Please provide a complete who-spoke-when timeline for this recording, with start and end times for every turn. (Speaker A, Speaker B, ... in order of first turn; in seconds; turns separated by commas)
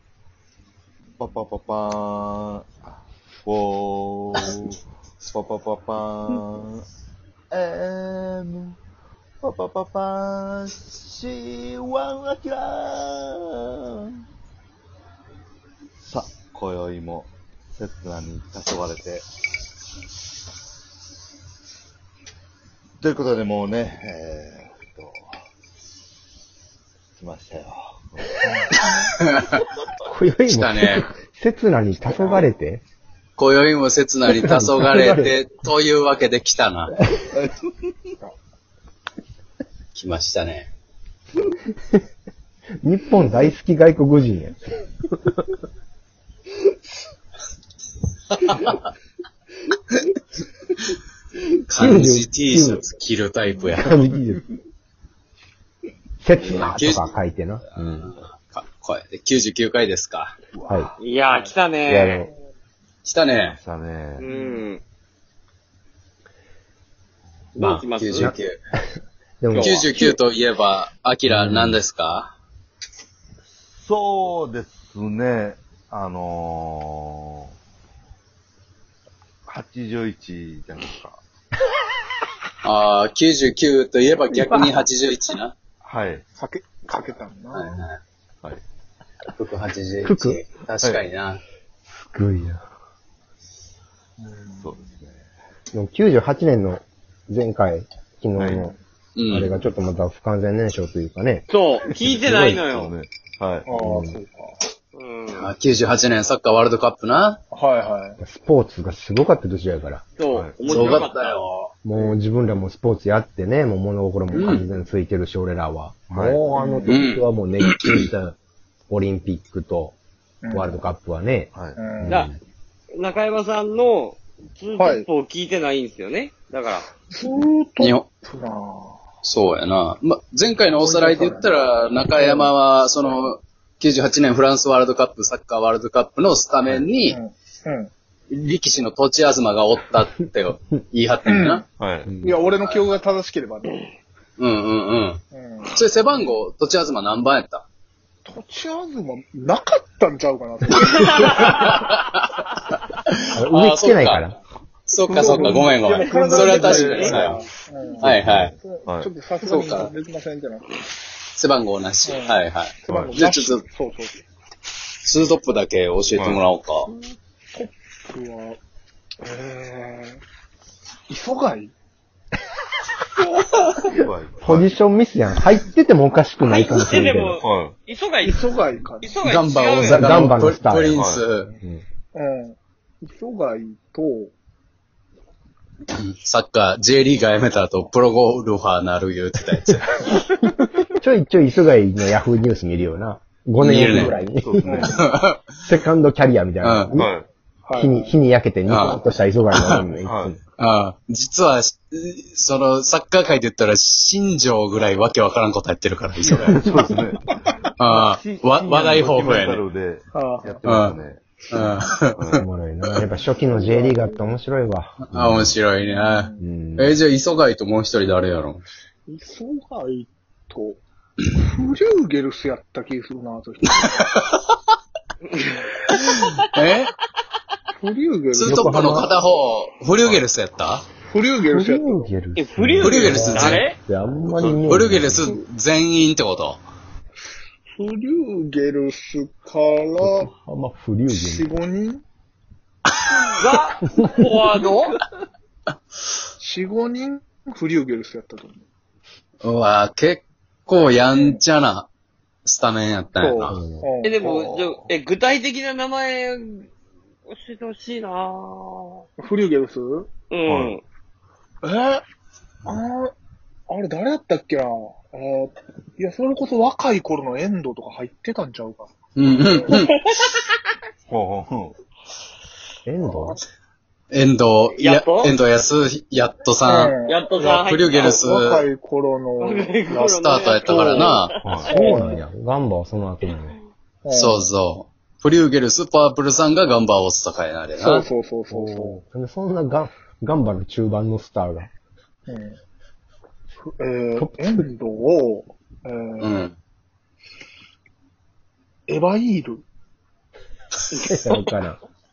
Speaker A: 1.2-2.9, Speaker A: 3.4-4.8, Speaker A: 5.3-6.8, Speaker A: 7.5-8.8, Speaker A: 9.4-14.2, Speaker A: 16.0-19.2, Speaker A: 23.0-25.3, Speaker A: 27.2-28.3, Speaker B: 28.4-29.0, Speaker C: 28.8-29.6, Speaker D: 30.0-32.8, Speaker C: 30.5-31.1, Speaker B: 32.0-32.4, Speaker C: 33.4-37.0, Speaker D: 34.3-35.3, Speaker C: 39.9-40.7, Speaker D: 42.8-44.5, Speaker C: 51.7-54.0, Speaker D: 51.7-52.8, Speaker D: 53.7-54.4, Speaker D: 56.2-58.1, Speaker C: 56.4-57.1, Speaker C: 57.8-60.3, Speaker A: 60.6-60.8, Speaker E: 61.0-62.3, Speaker D: 61.9-62.3, Speaker C: 63.0-63.6, Speaker A: 63.5-64.3, Speaker E: 64.2-64.8, Speaker E: 67.5-68.3, Speaker C: 67.6-68.6, Speaker D: 68.1-68.8, Speaker D: 69.4-70.2, Speaker E: 69.5-70.0, Speaker C: 69.6-72.3, Speaker D: 71.3-71.8, Speaker A: 73.7-77.5, Speaker A: 79.5-81.2, Speaker C: 82.6-85.5, Speaker D: 84.3-84.7, Speaker A: 85.8-86.2, Speaker B: 86.4-87.8, Speaker C: 87.5-88.0, Speaker C: 89.3-91.4, Speaker D: 90.0-90.4, Speaker A: 90.8-91.1, Speaker D: 91.9-92.6, Speaker B: 94.2-94.7, Speaker A: 94.6-95.3, Speaker D: 95.7-98.7, Speaker A: 98.3-98.7, Speaker C: 99.2-99.5, Speaker D: 99.3-101.5, Speaker E: 101.5-102.9, Speaker A: 102.0-103.7, Speaker D: 102.2-102.6, Speaker B: 103.7-104.6, Speaker D: 103.8-104.2, Speaker E: 104.9-105.5, Speaker C: 105.3-107.4, Speaker B: 107.5-108.2, Speaker D: 108.2-110.0, Speaker E: 110.2-111.4, Speaker A: 110.3-111.1, Speaker C: 110.6-111.7, Speaker D: 111.8-118.3, Speaker C: 114.3-114.6, Speaker A: 116.1-116.4, Speaker B: 116.5-117.0, Speaker C: 116.9-118.1, Speaker D: 118.9-120.0, Speaker B: 120.4-120.8, Speaker D: 120.5-122.4, Speaker A: 121.5-121.8, Speaker B: 121.8-122.3, Speaker E: 122.9-126.9, Speaker B: 124.8-125.1, Speaker B: 127.1-129.0, Speaker C: 127.8-128.1, Speaker C: 129.2-137.2, Speaker B: 130.7-131.5, Speaker B: 132.1-132.5, Speaker B: 137.1-137.9, Speaker C: 138.3-141.6, Speaker B: 141.2-141.6, Speaker A: 141.8-142.3, Speaker B: 142.2-143.8, Speaker C: 142.5-142.9, Speaker C: 144.4-147.6, Speaker B: 145.3-146.4, Speaker B: 148.2-151.9, Speaker C: 150.7-154.3, Speaker E: 150.9-151.6, Speaker D: 153.3-154.3, Speaker C: 154.8-157.4, Speaker B: 155.1-160.7, Speaker D: 155.1-155.6, Speaker E: 156.1-157.2, Speaker A: 158.0-159.1, Speaker C: 158.0-158.5, Speaker C: 159.4-159.9, Speaker C: 161.3-163.6, Speaker B: 162.0-164.2, Speaker A: 162.9-163.2, Speaker C: 165.0-166.9, Speaker A: 166.1-166.4, Speaker B: 167.5-168.6, Speaker B: 169.2-170.2, Speaker B: 171.1-171.7, Speaker A: 174.0-174.7, Speaker D: 174.4-177.4, Speaker E: 176.4-178.4, Speaker A: 177.4-177.7, Speaker B: 178.2-179.2, Speaker E: 179.0-180.1, Speaker C: 179.2-181.5, Speaker D: 179.8-181.0, Speaker A: 180.9-181.2, Speaker B: 182.1-184.3, Speaker C: 185.9-190.0, Speaker D: 190.3-195.0, Speaker C: 193.6-194.2, Speaker B: 193.9-195.0, Speaker A: 194.3-195.1, Speaker C: 194.9-195.4, Speaker D: 195.6-197.1, Speaker C: 196.6-197.0, Speaker A: 196.9-197.3, Speaker B: 197.7-198.1, Speaker D: 197.7-200.4, Speaker C: 198.7-199.0, Speaker C: 199.5-199.8, Speaker A: 200.0-200.3, Speaker C: 200.6-206.7, Speaker A: 206.2-207.2, Speaker C: 207.8-209.6, Speaker A: 207.8-211.2, Speaker B: 210.1-210.6, Speaker C: 210.7-211.0, Speaker C: 211.5-212.3, Speaker A: 212.2-212.4, Speaker D: 212.3-215.6, Speaker B: 213.4-214.3, Speaker C: 215.1-218.6, Speaker B: 215.8-216.4, Speaker D: 216.4-217.0, Speaker B: 219.1-220.8, Speaker B: 221.3-224.1, Speaker C: 223.7-224.4, Speaker E: 225.4-225.9, Speaker C: 225.9-226.9, Speaker B: 227.8-228.9, Speaker C: 228.3-230.9, Speaker D: 228.4-229.1, Speaker A: 230.0-230.3, Speaker B: 231.1-232.1, Speaker D: 231.5-235.3, Speaker E: 232.3-233.8, Speaker C: 232.8-233.6, Speaker A: 234.3-234.8, Speaker C: 234.6-236.6, Speaker B: 237.8-240.3, Speaker D: 240.0-241.5, Speaker B: 241.1-242.0, Speaker E: 243.3-245.0, Speaker B: 246.4-248.6, Speaker C: 249.4-251.9, Speaker B: 251.0-251.4, Speaker C: 252.4-253.6, Speaker B: 253.2-254.6, Speaker D: 253.5-253.9, Speaker E: 254.0-256.7, Speaker E: 257.3-259.0, Speaker B: 259.2-260.1, Speaker E: 260.3-260.8, Speaker A: 260.4-260.8, Speaker B: 261.6-262.0, Speaker B: 262.6-263.1, Speaker B: 263.7-268.9, Speaker C: 269.1-270.0, Speaker E: 269.7-270.4, Speaker A: 271.1-271.7, Speaker D: 272.9-273.4, Speaker C: 274.1-276.9, Speaker E: 274.8-275.3, Speaker B: 276.6-282.2, Speaker E: 277.0-278.2, Speaker C: 277.6-278.6, Speaker E: 279.4-281.6, Speaker C: 279.9-281.4, Speaker A: 281.4-281.8, Speaker D: 281.6-283.6, Speaker B: 284.0-284.5, Speaker C: 284.1-288.1, Speaker B: 287.8-289.0, Speaker D: 288.5-291.7, Speaker B: 292.3-292.6, Speaker B: 293.8-296.5, Speaker D: 294.2-294.7, Speaker C: 296.2-296.5, Speaker B: 298.9-299.6, Speaker D: 301.0-301.8